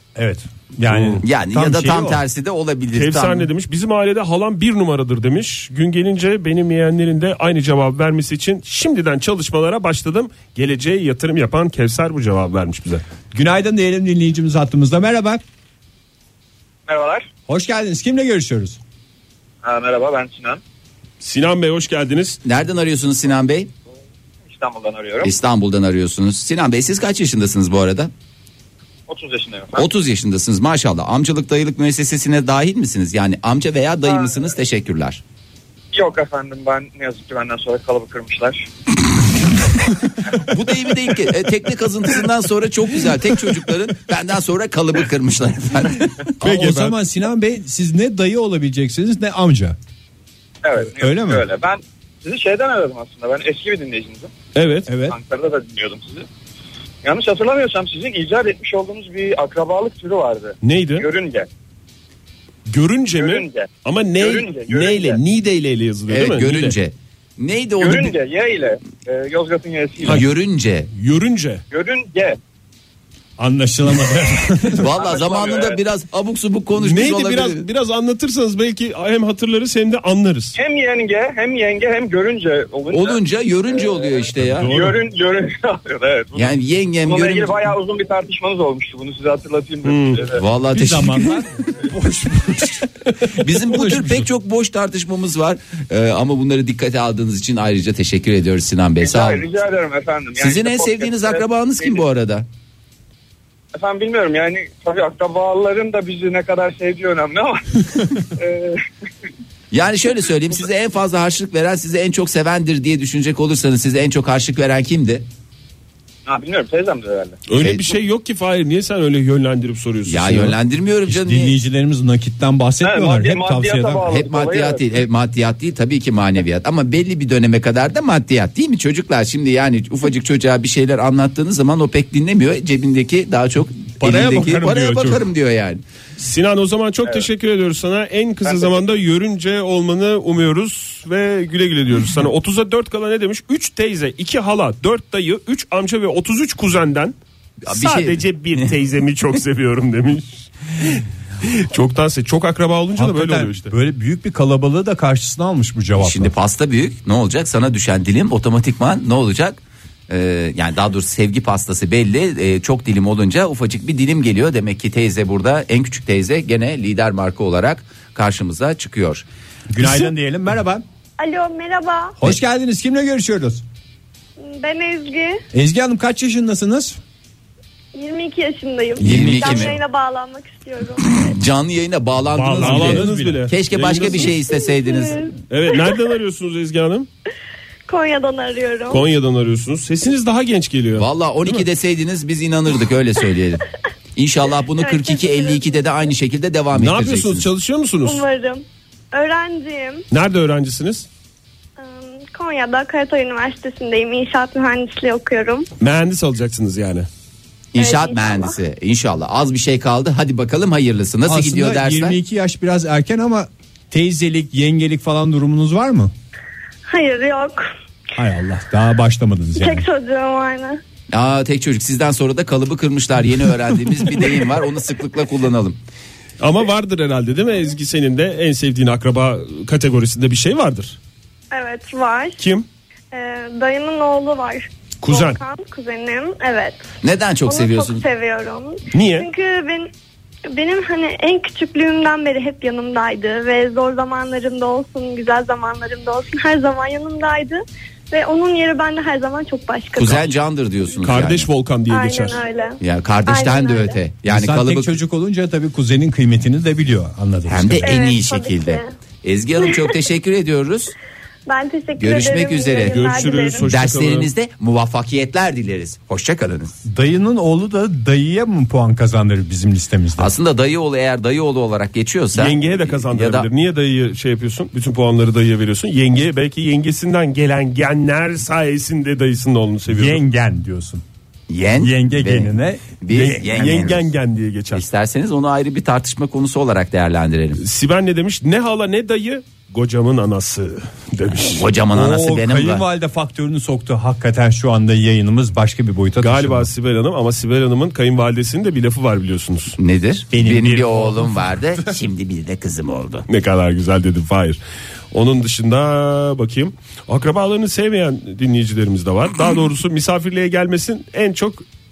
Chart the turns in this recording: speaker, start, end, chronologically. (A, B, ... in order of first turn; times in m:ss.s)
0:00.2-0:02.2 A
0:00.9-0:01.2 B
0:01.2-0:03.5 C
0:03.0-0:13.0 B
0:13.3-0:15.4 A
0:16.9-0:17.3 D
0:17.5-0:18.8 A
0:19.6-0:20.6 D
0:21.2-0:22.4 B
0:22.4-0:23.7 C
0:24.5-0:25.3 D
0:25.2-0:28.1 C
0:29.1-0:29.8 D
0:29.8-0:35.2 C
0:35.9-0:38.7 D
0:40.5-0:46.3 C
0:46.4-0:49.8 A
0:46.4-0:46.9 B
0:50.6-0:54.3 D
0:50.9-0:51.4 A
0:54.6-0:54.9 B
0:54.9-0:55.2 A
0:55.0-0:56.3 D
0:57.0-1:01.5 D
1:00.6-1:01.1 B
1:02.7-1:06.8 B
1:03.2-1:05.2 D
1:06.1-1:08.2 C
1:07.8-1:10.2 D
1:10.0-1:10.9 C
1:10.9-1:11.6 B
1:11.7-1:12.4 D
1:13.4-1:14.9 A
1:14.8-1:17.6 C
1:15.0-1:15.8 D
1:16.8-1:20.6 B
1:20.6-1:23.2 D
1:22.9-1:24.7 C
1:23.7-1:24.1 D
1:24.6-1:25.0 B
1:24.6-1:26.5 D
1:26.4-1:27.7 C
1:27.1-1:30.4 D
1:29.8-1:30.2 B
1:30.4-1:31.4 C
1:30.7-1:34.3 A
1:33.4-1:39.4 C
1:39.0-1:42.0 D
1:40.4-1:42.5 C
1:43.7-1:47.8 D
1:48.4-1:48.8 D
1:49.7-1:55.2 C
1:56.3-1:57.4 D
1:57.5-2:00.6 B
2:00.1-2:01.6 C
2:01.1-2:04.0 A
2:02.8-2:04.8 D
2:04.0-2:15.8 C
2:14.0-2:15.3 A
2:16.2-2:27.2 B
2:18.4-2:18.9 D
2:27.7-2:28.7 C
2:27.7-2:33.7 B
2:33.0-2:36.3 A
2:36.0-2:49.2 C
2:49.7-2:50.8 A
2:49.8-2:50.1 B
2:51.2-2:52.2 E
2:52.2-2:53.6 A
2:54.4-2:55.4 E
2:55.5-2:57.0 A
2:58.0-3:01.3 E
2:59.0-2:59.8 C
2:59.0-2:59.6 A
3:01.4-3:05.3 C
3:02.3-3:03.5 A
3:02.6-3:04.3 B
3:04.4-3:06.0 E
3:05.5-3:07.1 B
3:07.9-3:09.1 E
3:08.9-3:11.6 B
3:11.0-3:13.6 C
3:14.2-3:17.5 C
3:14.8-3:15.8 E
3:16.7-3:18.2 B
3:18.0-3:20.0 E
3:20.1-3:21.1 B
3:21.8-3:25.7 E
3:25.8-3:27.1 B
3:27.7-3:32.2 C
3:27.8-3:28.6 E
3:31.2-3:36.1 A
3:36.9-3:37.7 E
3:38.2-3:39.9 A
3:39.6-3:40.8 E
3:41.1-3:45.8 C
3:46.4-3:51.0 B
3:51.5-3:52.4 E
3:52.4-3:52.7 B
3:53.1-3:56.8 E
3:55.0-3:55.4 B
3:57.0-3:58.0 C
3:57.5-3:59.9 E
3:58.9-3:59.3 B
4:00.5-4:10.3 E
4:10.0-4:11.5 C
4:11.0-4:12.4 B
4:11.9-4:14.0 E
4:12.8-4:15.0 C
4:14.3-4:17.9 A
4:17.5-4:20.9 C
4:17.8-4:18.9 E
4:19.6-4:19.9 E
4:21.5-4:23.7 E
4:22.0-4:23.0 C
4:22.9-4:24.3 B
4:23.6-4:26.8 C
4:26.9-4:30.3 A
4:30.2-4:33.5 C
4:32.3-4:40.2 B
4:39.9-4:41.0 A
4:41.5-4:44.0 C
4:41.8-4:43.5 A
4:43.2-4:44.8 B
4:44.7-4:47.6 C
4:47.6-4:51.7 B
4:51.4-4:52.8 C
4:51.9-4:56.7 A
4:56.2-4:59.8 B
4:59.8-5:03.3 C
5:00.3-5:01.9 A
5:03.3-5:04.6 B
5:05.1-5:11.6 B